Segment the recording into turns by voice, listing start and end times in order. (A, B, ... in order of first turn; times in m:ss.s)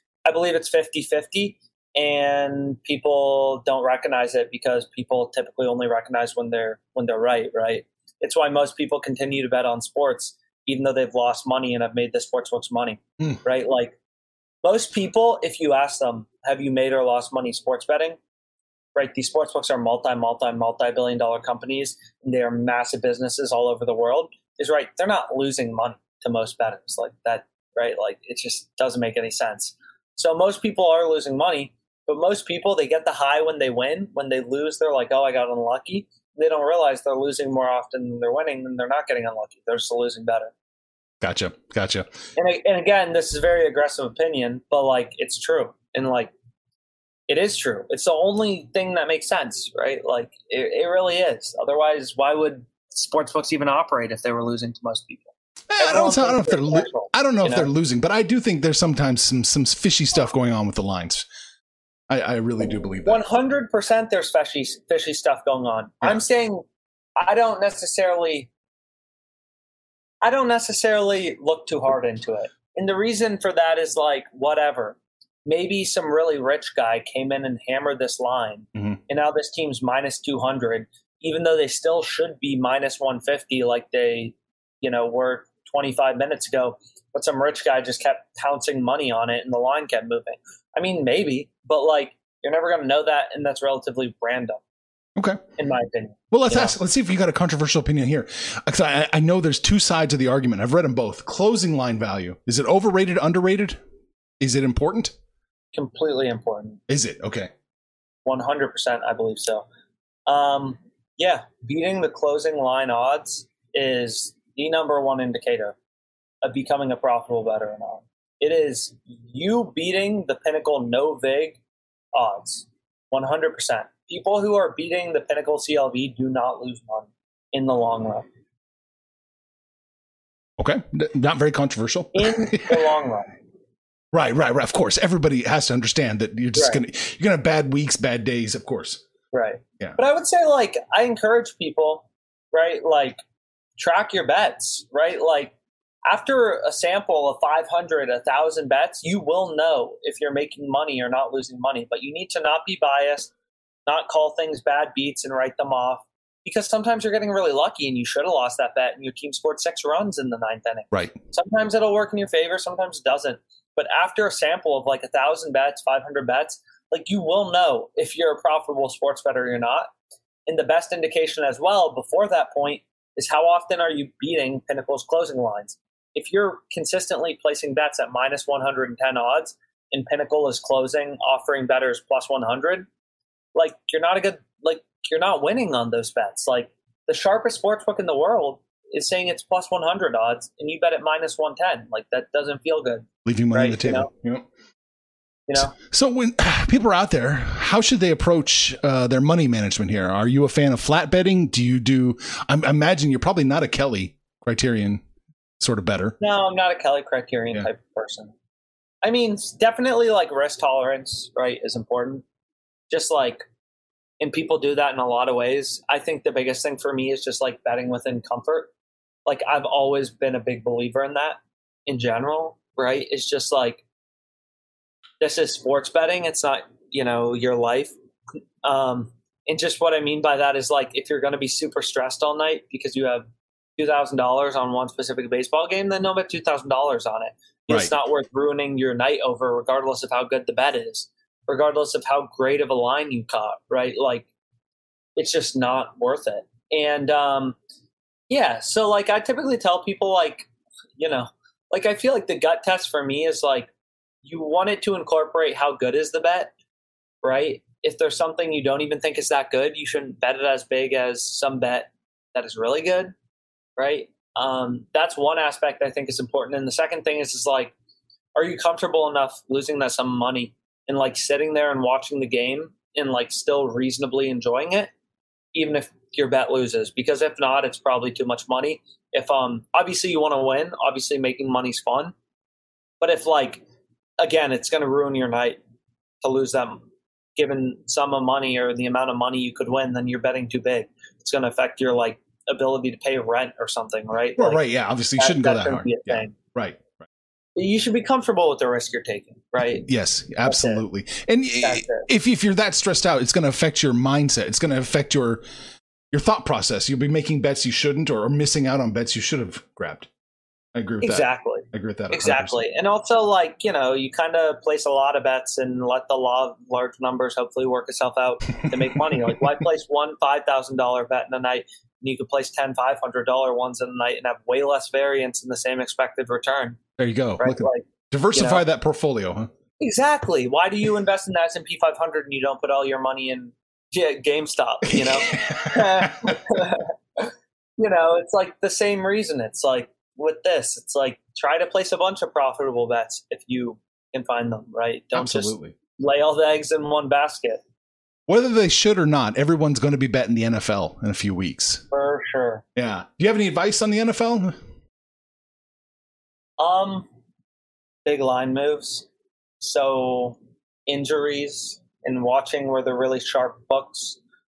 0:00.2-0:14.0 A
0:14.6-0:18.2 A
0:18.9-0:40.5 A
0:41.2-0:42.1 B
0:42.4-0:46.3 A
0:47.3-0:57.7 A
0:55.7-1:01.2 B
1:02.1-1:03.2 B
1:03.0-1:06.6 A
1:07.2-1:08.5 A
1:10.2-1:34.6 A
1:35.6-1:36.7 A
1:36.3-1:43.8 B
1:44.4-1:45.1 B
1:45.7-1:46.8 A
1:46.9-1:47.5 B
1:48.2-1:49.6 A
1:50.3-1:55.8 A
1:56.4-2:01.6 A
2:02.1-2:08.2 A
2:10.6-2:12.8 B
2:12.1-2:13.3 A
2:14.1-2:19.0 B
2:19.3-2:23.2 A
2:23.8-2:25.5 A
2:26.0-2:33.3 A
2:33.9-2:49.9 A
2:50.5-3:02.9 A
3:03.5-3:14.1 A
3:13.2-3:14.4 B
3:15.5-3:15.7 A
3:15.6-3:25.0 B
3:25.6-3:26.2 B
3:26.2-3:28.3 A
3:29.0-3:32.2 A
3:32.9-3:33.4 A
3:34.2-3:38.7 A
3:39.2-3:43.8 A
3:45.2-3:47.9 A
3:48.6-4:04.2 A
3:57.7-3:58.0 B
4:05.2-4:07.6 A
4:08.3-4:13.7 A
4:14.2-4:16.5 A
4:17.2-4:23.1 A
4:23.8-4:27.7 A
4:28.4-4:34.9 A
4:35.5-4:42.1 A
4:43.0-4:43.6 A
4:44.2-4:45.6 A
4:46.2-4:46.8 A
4:47.4-4:54.6 A
4:54.4-4:57.0 B
4:55.2-4:56.3 A
4:57.6-4:59.9 A
4:59.8-5:05.4 B
5:00.4-5:00.8 A
5:01.6-5:02.1 A
5:06.1-5:10.1 B
5:10.7-5:12.6 B
5:11.0-5:26.8 A
5:27.0-5:29.5 B
5:27.4-5:28.6 A
5:29.8-5:47.6 A
5:34.9-5:36.4 B
5:45.1-5:45.7 B
5:48.3-5:51.8 B
5:51.9-5:52.6 A
5:52.8-5:54.6 B
5:56.6-5:57.0 A
5:58.0-5:59.0 A
5:59.6-6:04.2 A